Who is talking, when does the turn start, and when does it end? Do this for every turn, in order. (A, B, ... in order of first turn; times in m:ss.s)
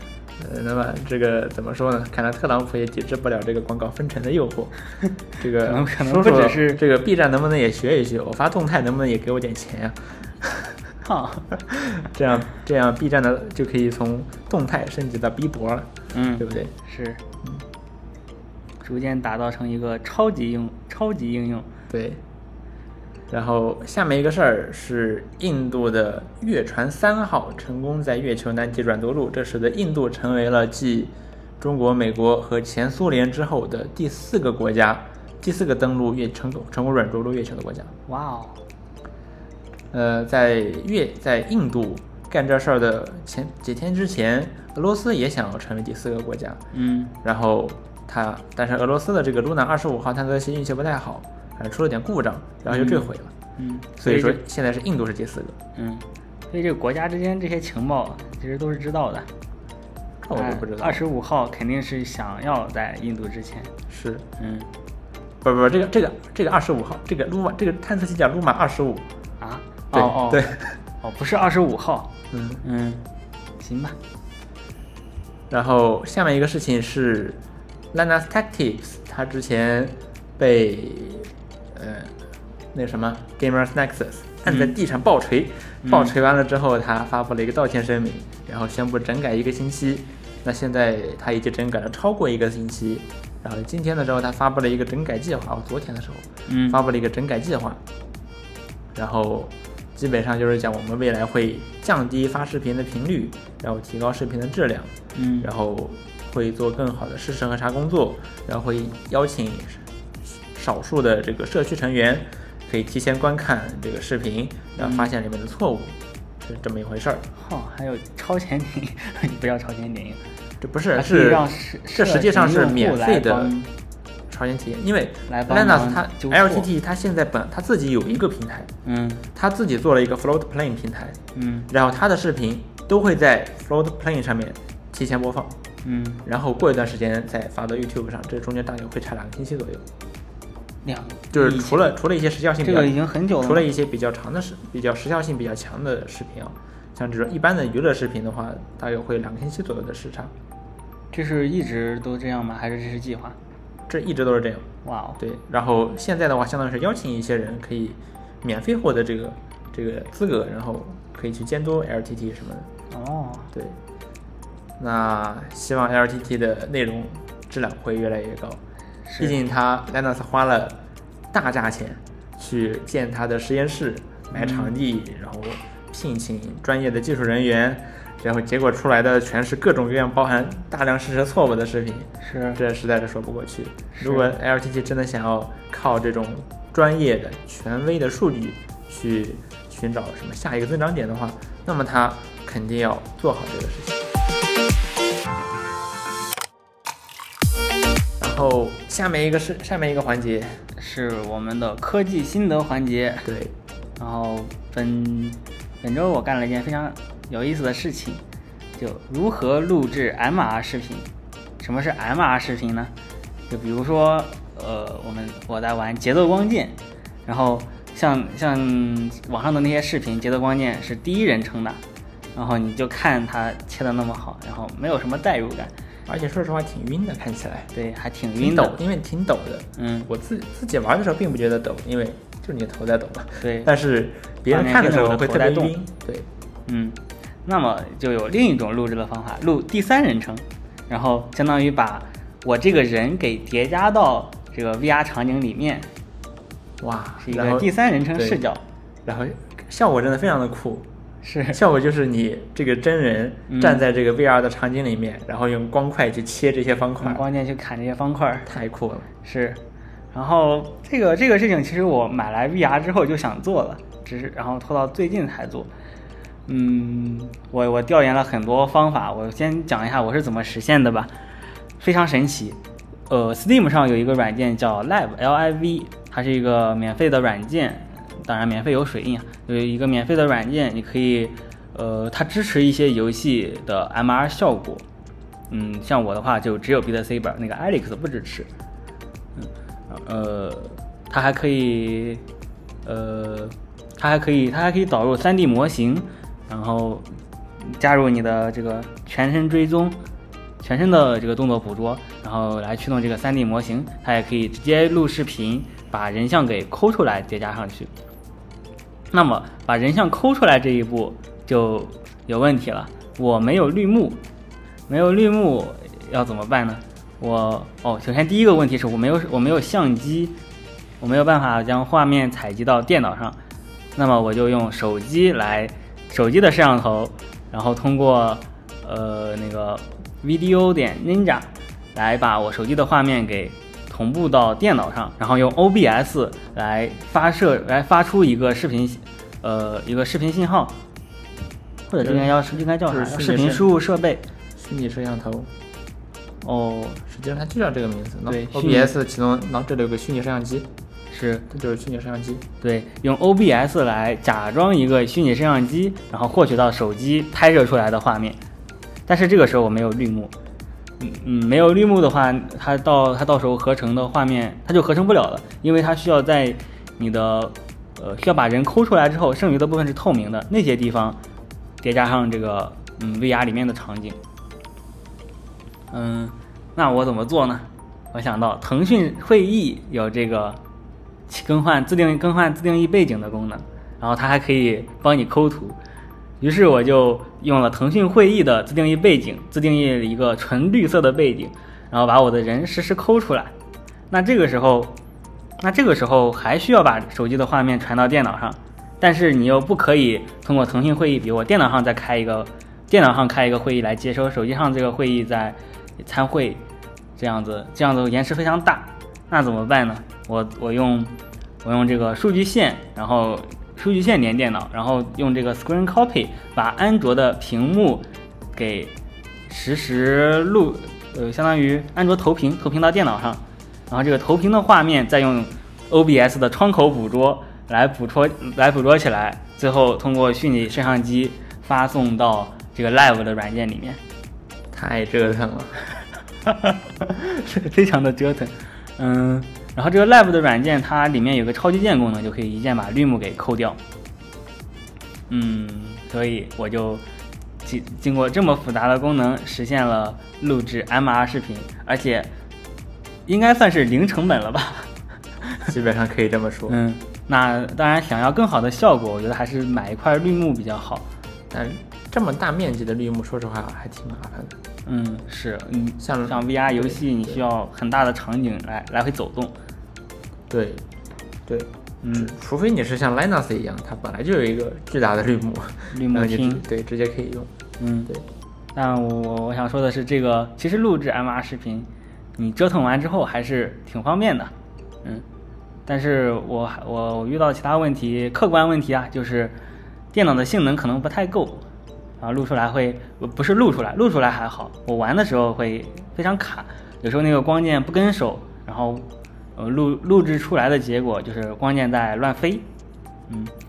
0:00.4-0:04.7 A
0:05.4-0:10.8 A
0:05.6-0:06.8 B
0:11.0-0:11.5 B
0:11.6-0:16.7 A
0:16.1-0:17.2 B
0:18.8-0:21.7 B
0:21.9-0:22.2 A
0:23.3-0:37.9 A
0:38.1-0:38.6 B
0:39.9-0:46.6 A
0:46.7-0:47.1 B
0:47.2-0:53.3 A
0:52.7-0:54.4 B
0:54.0-0:55.6 A
0:55.8-0:59.3 B
1:00.2-1:01.0 A
1:00.3-1:03.7 B
1:03.9-1:04.2 A
1:04.4-1:04.7 B
1:05.4-1:09.0 A
1:09.4-1:12.1 B
1:09.9-1:10.8 A
1:12.3-1:12.6 A
1:12.6-1:13.0 B
1:13.6-1:14.0 B
1:15.5-1:17.4 A
1:17.9-1:22.1 A
1:22.7-1:37.8 A
1:24.4-1:24.7 B
1:25.8-1:26.1 B
1:36.5-1:36.8 B
1:38.9-1:49.8 A
1:45.1-1:45.5 B
1:50.5-1:57.2 A
1:54.8-1:55.1 B
1:57.4-2:00.2 B
2:00.6-2:03.5 A
2:01.0-2:03.7 B
2:04.3-2:08.7 A
2:05.3-2:06.7 B
2:08.8-2:09.2 B
2:09.3-2:15.6 A
2:11.3-2:11.7 B
2:15.8-2:16.2 B
2:16.2-2:19.8 A
2:20.8-2:21.9 B
2:21.3-2:30.3 A
2:22.6-2:23.7 B
2:31.1-2:33.4 B
2:33.9-2:34.7 A
2:34.8-2:35.2 B
2:35.2-2:42.7 A
2:42.9-2:43.5 B
2:44.8-2:48.6 A
2:49.0-2:49.4 B
2:49.2-2:50.8 A
2:51.3-3:14.1 A
2:54.3-2:54.7 B
3:02.2-3:02.6 B
3:03.9-3:04.3 B
3:18.2-3:20.6 A
3:20.8-3:23.3 B
3:23.2-3:23.5 A
3:24.0-3:28.2 B
3:28.8-3:31.1 B
3:31.6-3:32.9 B
3:33.5-3:41.8 B
3:42.3-3:45.7 B
3:46.1-3:47.7 A
3:47.7-3:48.8 B
3:48.4-3:56.3 A
3:49.8-3:50.1 B
3:53.4-3:53.7 B
3:54.5-3:55.7 B
3:56.7-4:05.9 B
4:06.8-4:08.4 A
4:07.2-4:08.6 B
4:09.0-4:10.9 A
4:11.2-4:11.6 B
4:11.5-4:17.2 A
4:13.5-4:13.8 B
4:17.0-4:18.5 B
4:18.4-4:19.1 A
4:19.2-4:19.6 B
4:20.1-4:25.7 B
4:26.5-4:31.1 B
4:31.8-4:32.6 B
4:33.1-4:44.8 B
4:45.5-4:48.5 B
4:49.4-4:52.2 B
4:52.8-4:57.1 B
4:57.6-5:00.0 B
5:00.6-5:07.9 B
5:09.1-5:14.2 B
5:14.9-5:20.4 B
5:21.0-5:23.4 B
5:24.0-5:40.8 B
5:41.9-5:44.2 B
5:42.0-5:43.7 A
5:44.6-5:45.5 A
5:46.4-5:47.0 B
5:47.1-5:50.7 A
5:48.3-5:48.9 B
5:51.1-5:51.5 B
5:51.5-5:52.4 A
5:52.6-5:58.4 B
5:59.1-6:00.3 B
6:01.0-6:11.2 B
6:11.8-6:14.2 B
6:15.9-6:20.6 B
6:21.3-6:25.8 B
6:26.4-6:33.5 B
6:34.1-6:35.0 B
6:35.6-6:46.6 B
6:47.2-6:58.9 B
6:59.5-7:14.0 B
7:14.7-7:15.8 A
7:16.4-7:23.8 B
7:25.3-7:27.0 B
7:27.6-7:32.3 B
7:33.3-7:34.9 B
7:35.6-7:36.8 A
7:36.7-7:41.0 B
7:41.5-7:44.6 A
7:44.8-7:49.5 B
7:46.0-7:47.4 A
7:50.5-7:50.8 A
7:51.5-7:57.5 A
7:52.0-7:52.3 B
7:55.9-7:56.6 B
7:57.8-7:58.1 B
7:58.7-8:04.5 B
8:05.9-8:09.5 B
8:10.1-8:11.6 B
8:12.2-8:22.6 B